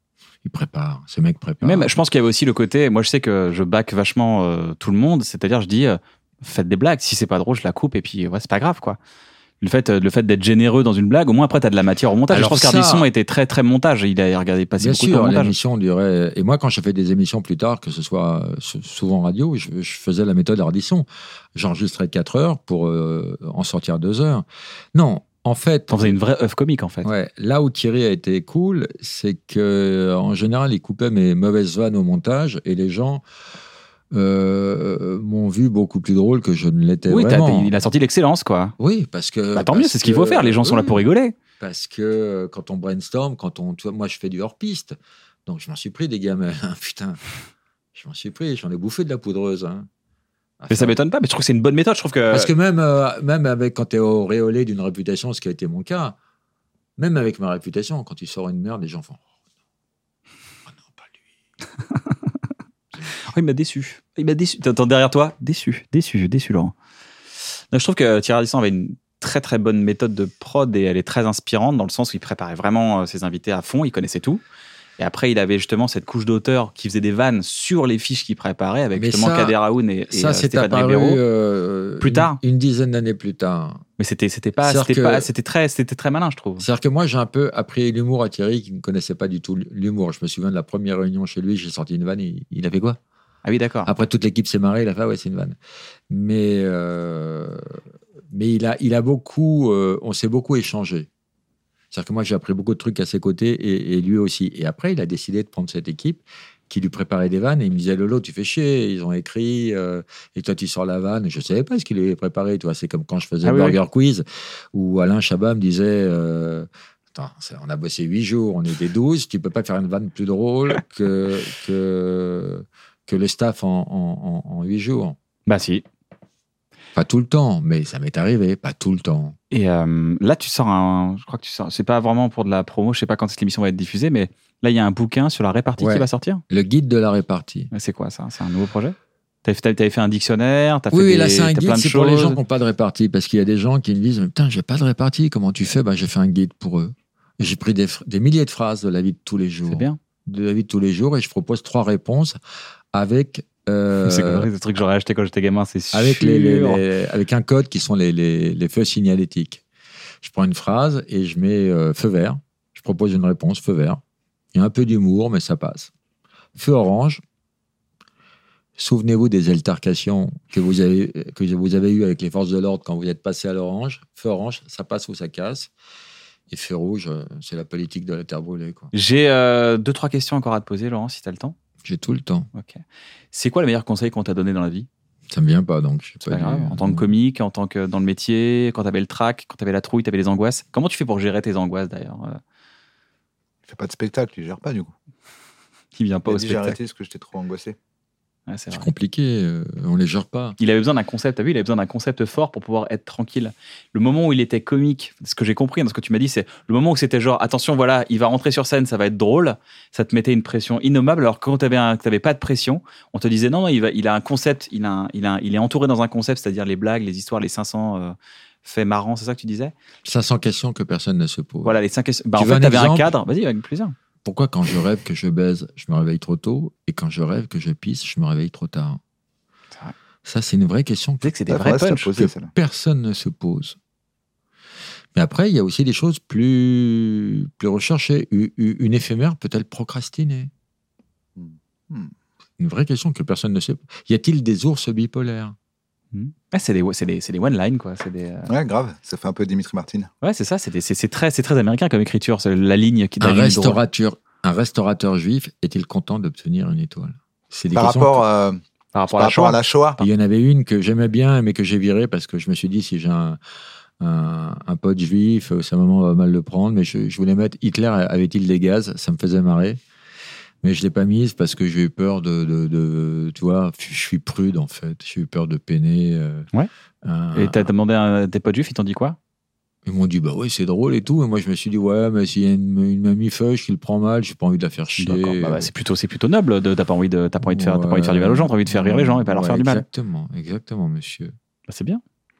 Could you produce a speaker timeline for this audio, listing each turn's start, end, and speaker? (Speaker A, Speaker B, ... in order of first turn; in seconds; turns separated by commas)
Speaker A: 0.4-1.9, Speaker B: 1.6-9.0, Speaker B: 9.6-15.5, Speaker A: 12.3-13.1, Speaker A: 14.8-26.2, Speaker B: 25.9-27.1, Speaker A: 27.0-33.2, Speaker A: 34.1-37.9, Speaker B: 37.1-38.7, Speaker A: 38.8-41.1, Speaker B: 39.5-41.3, Speaker A: 41.6-47.2, Speaker A: 47.9-49.9, Speaker A: 50.6-51.0, Speaker B: 50.7-52.5, Speaker A: 52.3-56.2, Speaker A: 57.0-59.2, Speaker A: 60.7-61.1, Speaker B: 63.2-66.7, Speaker B: 67.7-74.4, Speaker B: 75.0-81.2, Speaker A: 79.0-79.6, Speaker A: 80.1-83.8, Speaker B: 82.0-82.4, Speaker B: 84.0-86.7, Speaker A: 84.6-85.3, Speaker A: 86.6-93.0, Speaker B: 93.5-93.9, Speaker A: 93.8-95.6, Speaker A: 96.1-97.8, Speaker A: 98.3-101.1, Speaker A: 101.9-125.2, Speaker B: 113.4-113.8, Speaker B: 125.5-125.8, Speaker A: 127.0-129.4, Speaker B: 129.5-136.4, Speaker A: 135.8-137.7, Speaker B: 137.7-142.4, Speaker A: 140.9-152.4, Speaker B: 149.7-150.0, Speaker A: 152.9-154.5, Speaker B: 154.0-156.8, Speaker A: 155.9-159.6, Speaker A: 160.2-164.0, Speaker A: 164.5-165.9, Speaker A: 166.6-167.2, Speaker A: 168.8-175.7, Speaker A: 176.5-178.9, Speaker B: 178.9-181.6, Speaker A: 181.8-182.5, Speaker B: 182.6-182.8, Speaker B: 183.3-184.9, Speaker A: 185.3-187.1, Speaker B: 186.3-192.4, Speaker C: 193.7-194.9, Speaker B: 195.9-196.8, Speaker C: 196.3-197.8, Speaker B: 198.5-198.9, Speaker A: 198.7-200.6, Speaker B: 200.6-219.7, Speaker A: 220.0-221.8, Speaker B: 221.6-223.9, Speaker A: 222.3-223.1, Speaker A: 224.2-229.0, Speaker A: 230.2-231.3, Speaker B: 231.2-232.1, Speaker C: 231.5-232.5, Speaker A: 232.2-233.8, Speaker A: 235.2-240.5, Speaker C: 241.4-242.1, Speaker A: 242.6-245.6, Speaker B: 246.1-248.5, Speaker C: 248.5-250.1, Speaker B: 250.2-253.8, Speaker A: 253.2-258.2, Speaker C: 257.7-258.6, Speaker B: 258.9-259.6, Speaker C: 259.1-260.0, Speaker A: 260.0-263.4, Speaker A: 264.0-269.8, Speaker A: 270.6-276.5, Speaker A: 277.0-277.7, Speaker B: 277.4-279.2, Speaker A: 279.9-285.7, Speaker B: 285.0-289.8, Speaker A: 287.4-291.3, Speaker B: 291.7-292.0